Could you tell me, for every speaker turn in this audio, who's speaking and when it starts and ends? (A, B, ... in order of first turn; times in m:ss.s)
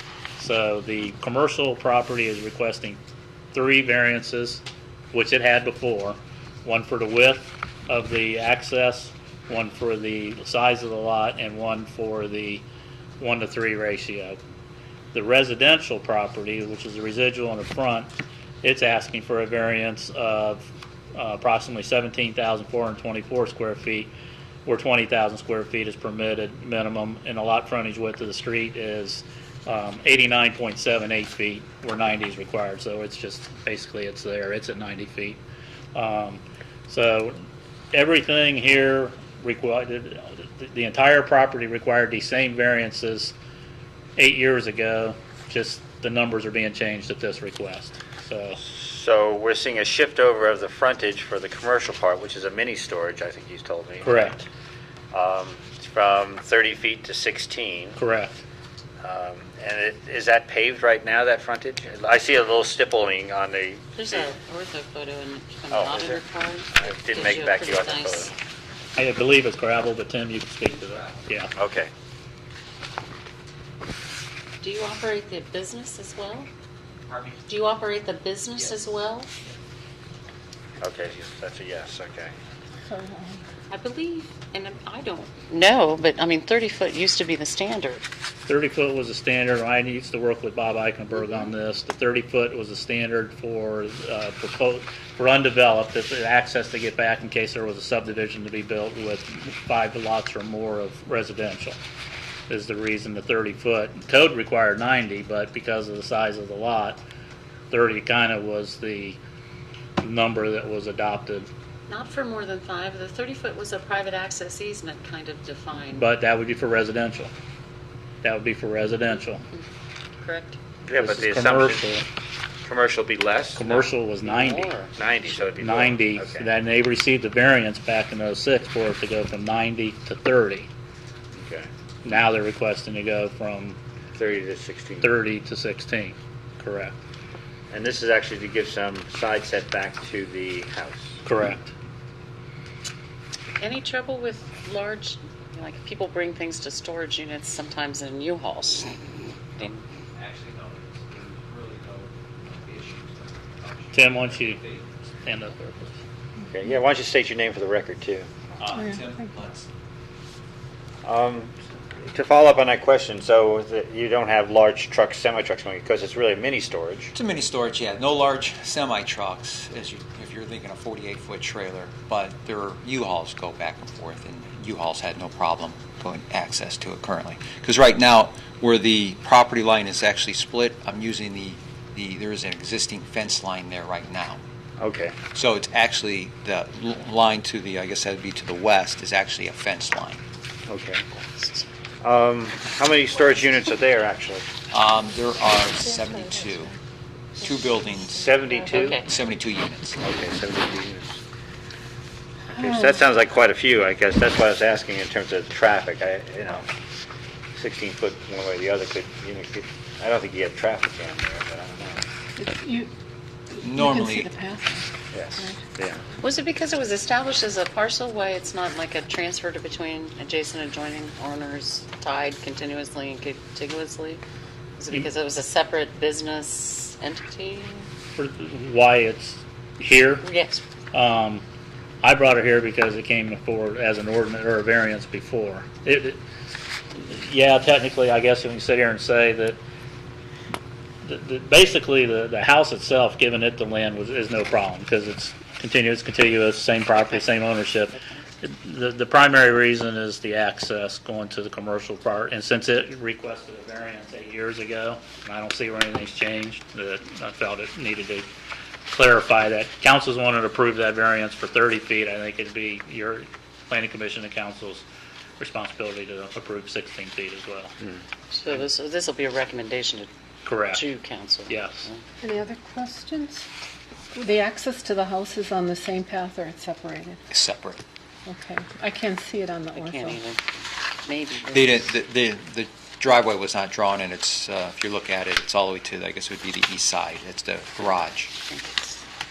0:00.4-0:03.0 A
0:03.5-0:12.6 A
0:13.2-0:14.4 A
0:15.1-0:18.1 A
0:18.6-0:24.1 A
0:24.7-0:35.4 A
0:36.0-0:37.4 A
0:37.9-0:43.4 A
0:44.2-0:48.6 A
0:48.6-0:54.4 B
0:54.0-0:54.4 A
0:55.1-0:58.0 B
0:58.0-0:58.4 A
0:59.0-1:04.3 B
1:04.0-1:08.4 C
1:05.7-1:08.3 B
1:09.0-1:11.5 A
1:10.7-1:11.2 D
1:11.6-1:11.9 B
1:14.6-1:16.5 C
1:17.1-1:17.4 D
1:17.5-1:19.3 C
1:18.6-1:18.8 D
1:20.8-1:22.3 B
1:22.9-1:23.4 E
1:23.7-1:28.0 C
1:28.5-1:41.8 A
1:42.5-1:47.0 A
1:47.7-1:49.2 A
1:50.0-1:51.5 A
1:51.9-1:56.1 C
1:55.9-1:57.3 A
1:58.2-1:59.4 A
2:00.2-2:00.6 C
2:00.9-2:01.9 B
2:01.0-2:02.1 A
2:02.6-2:03.9 B
2:03.6-2:04.7 A
2:04.2-2:05.0 C
2:05.0-2:06.5 B
2:05.6-2:10.7 A
2:11.3-2:11.7 B
2:12.0-2:13.8 A
2:14.2-2:15.2 B
2:15.0-2:17.0 A
2:17.7-2:21.2 B
2:21.2-2:21.7 A
2:23.6-2:29.8 C
2:30.2-2:34.9 D
2:33.9-2:34.6 A
2:35.2-2:36.0 A
2:36.5-2:38.4 B
2:38.6-2:39.7 D
2:41.0-2:47.1 B
2:47.1-3:04.4 D
3:04.8-3:05.2 B
3:05.3-3:10.2 D
3:10.7-3:11.1 B
3:11.4-3:11.7 C
3:12.0-3:14.5 B
3:14.7-3:16.7 D
3:17.4-3:18.3 D
3:18.2-3:19.0 B
3:18.7-3:19.1 C
3:19.0-3:20.0 D
3:20.0-3:21.2 B
3:22.5-3:26.7 B
3:27.5-3:32.0 B
3:32.4-3:32.9 E
3:33.6-3:34.3 D
3:33.7-3:34.9 E
3:35.1-3:36.0 B
3:36.2-3:44.2 C
3:44.8-3:47.9 C
3:48.2-3:50.3 A
3:50.2-3:50.6 C
3:50.9-3:51.4 A
3:52.0-3:56.2 A
3:56.9-3:59.6 A
4:01.0-4:18.3 A
4:18.9-4:24.8 A
4:25.4-4:27.8 A
4:28.3-4:30.1 C
4:30.4-4:30.9 A
4:30.7-4:32.0 C
4:31.5-4:31.9 A
4:32.2-4:33.5 E
4:34.1-4:37.2 E
4:37.3-4:37.8 D
4:38.3-4:40.2 E
4:39.7-4:41.9 C
4:41.5-4:48.3 D
4:48.4-4:49.0 C